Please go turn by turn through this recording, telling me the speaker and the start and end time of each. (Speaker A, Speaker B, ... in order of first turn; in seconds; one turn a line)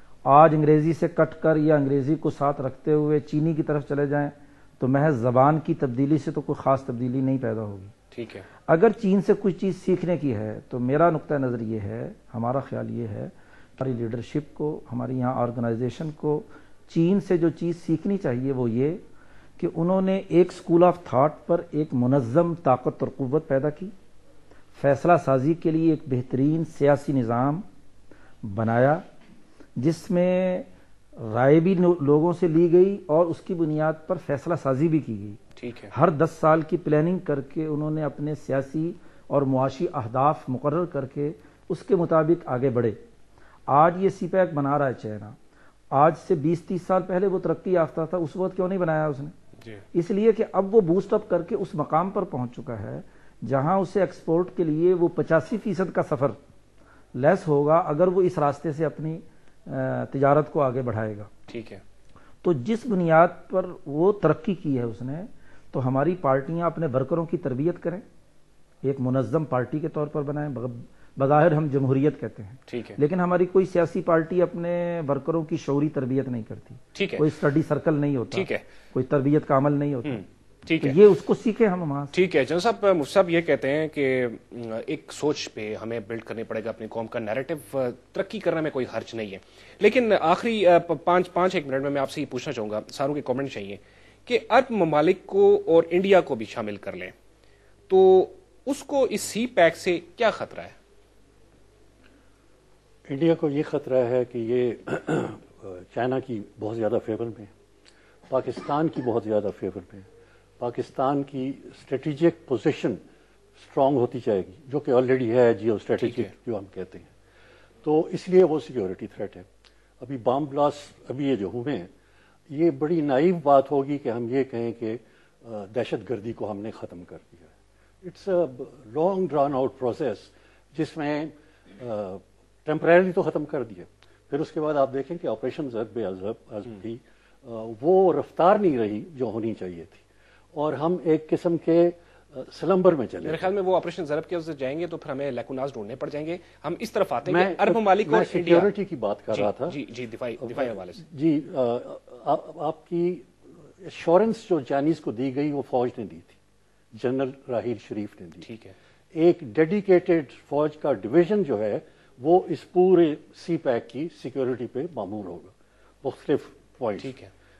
Speaker A: 0.2-7.9
Speaker B: 8.1-8.4
Speaker A: 8.7-19.0
Speaker A: 19.6-23.9
Speaker A: 24.7-27.6
Speaker A: 28.4-29.0
Speaker A: 29.8-30.7
Speaker A: 31.2-35.4
Speaker B: 35.6-35.9
Speaker A: 35.9-43.0
Speaker A: 43.7-45.4
Speaker A: 45.9-49.3
Speaker A: 49.9-56.4
Speaker A: 57.1-61.3
Speaker B: 61.5-61.8
Speaker A: 62.4-68.0
Speaker A: 68.8-80.2
Speaker B: 72.7-73.0
Speaker B: 76.9-77.2
Speaker B: 78.3-78.6
Speaker B: 80.0-81.0
Speaker A: 80.8-82.1
Speaker B: 82.1-97.1
Speaker B: 97.9-100.7
Speaker C: 103.0-107.5
Speaker C: 108.3-110.1
Speaker C: 110.6-113.0
Speaker C: 113.5-117.1
Speaker B: 116.0-116.3
Speaker C: 117.8-119.5
Speaker C: 120.0-121.9
Speaker C: 122.5-127.5
Speaker C: 128.0-143.5
Speaker B: 143.2-148.7
Speaker C: 147.2-149.8
Speaker B: 149.3-151.0
Speaker C: 150.4-156.4
Speaker C: 156.9-158.5
Speaker B: 158.4-158.7
Speaker C: 159.1-167.1
Speaker B: 167.0-167.3